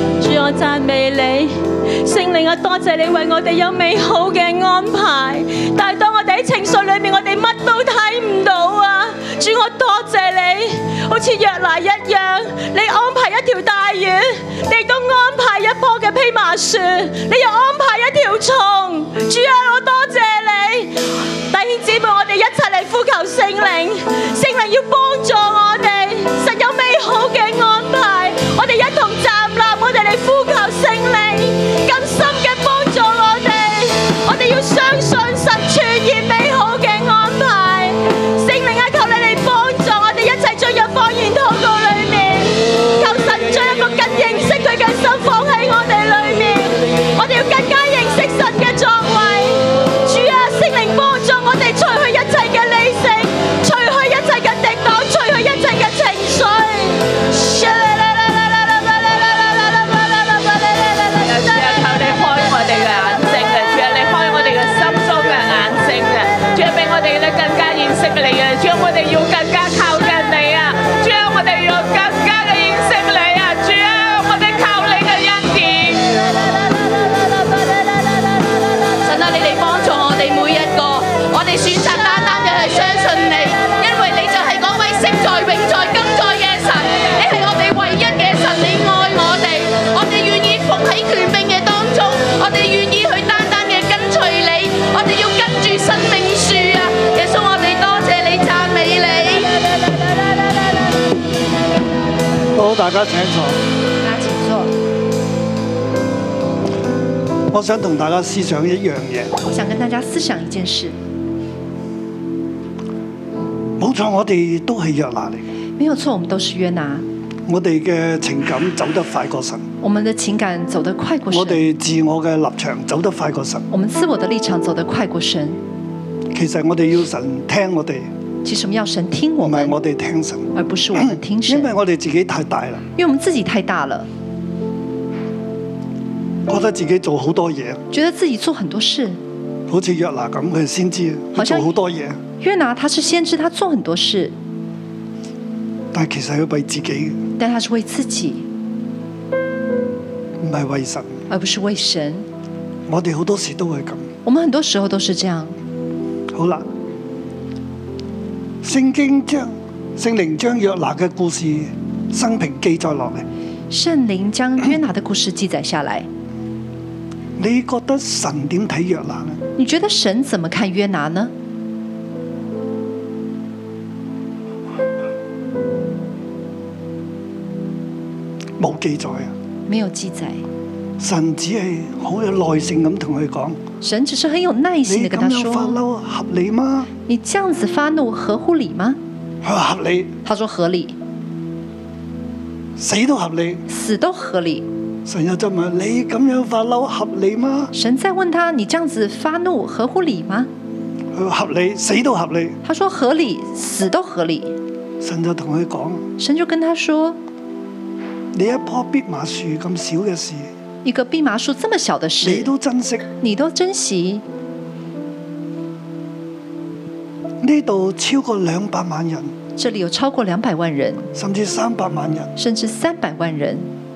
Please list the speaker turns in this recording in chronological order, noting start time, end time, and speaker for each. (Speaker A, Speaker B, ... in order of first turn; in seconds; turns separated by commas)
Speaker A: 0.2-61.6, Speaker B: 61.2-76.2, Speaker C: 79.0-99.6, Speaker D: 102.5-103.6, Speaker E: 104.0-104.7, Speaker D: 107.5-109.4, Speaker E: 109.5-111.0, Speaker D: 113.8-115.5, Speaker E: 115.8-117.0, Speaker D: 117.5-119.7, Speaker E: 119.8-121.6, Speaker D: 121.3-123.7, Speaker E: 123.7-125.6, Speaker D: 126.3-128.1, Speaker E: 128.4-129.7, Speaker D: 129.4-132.8, Speaker E: 130.5-131.7, Speaker E: 132.9-134.1, Speaker D: 136.5-137.8, Speaker E: 137.9-139.2, Speaker D: 139.7-142.2, Speaker E: 141.3-141.7, Speaker E: 142.4-144.3, Speaker D: 145.9-147.2, Speaker E: 147.4-148.4, Speaker D: 150.4-151.2, Speaker E: 151.3-152.2, Speaker D: 152.9-154.1, Speaker E: 154.2-155.5, Speaker D: 156.3-156.6, Speaker D: 158.6-163.2, Speaker E: 163.7-166.1, Speaker D: 167.4-169.4, Speaker E: 169.6-171.3, Speaker D: 178.6-179.3, Speaker E: 179.7-180.4, Speaker D: 181.0-183.6, Speaker E: 183.8-185.8, Speaker D: 184.8-186.9, Speaker E: 187.1-189.0, Speaker D: 189.4-190.1, Speaker E: 190.2-190.9, Speaker D: 192.8-193.6, Speaker E: 193.7-194.6, Speaker D: 195.0-197.7, Speaker E: 197.7-200.5, Speaker D: 201.1-202.6, Speaker E: 202.6-204.6, Speaker D: 205.0-206.0, Speaker E: 206.2-207.2, Speaker D: 208.3-210.5, Speaker E: 210.8-212.5, Speaker D: 212.2-213.1, Speaker E: 213.2-214.2, Speaker D: 217.4-219.3, Speaker E: 219.6-221.1, Speaker D: 221.1-222.3, Speaker E: 222.3-223.7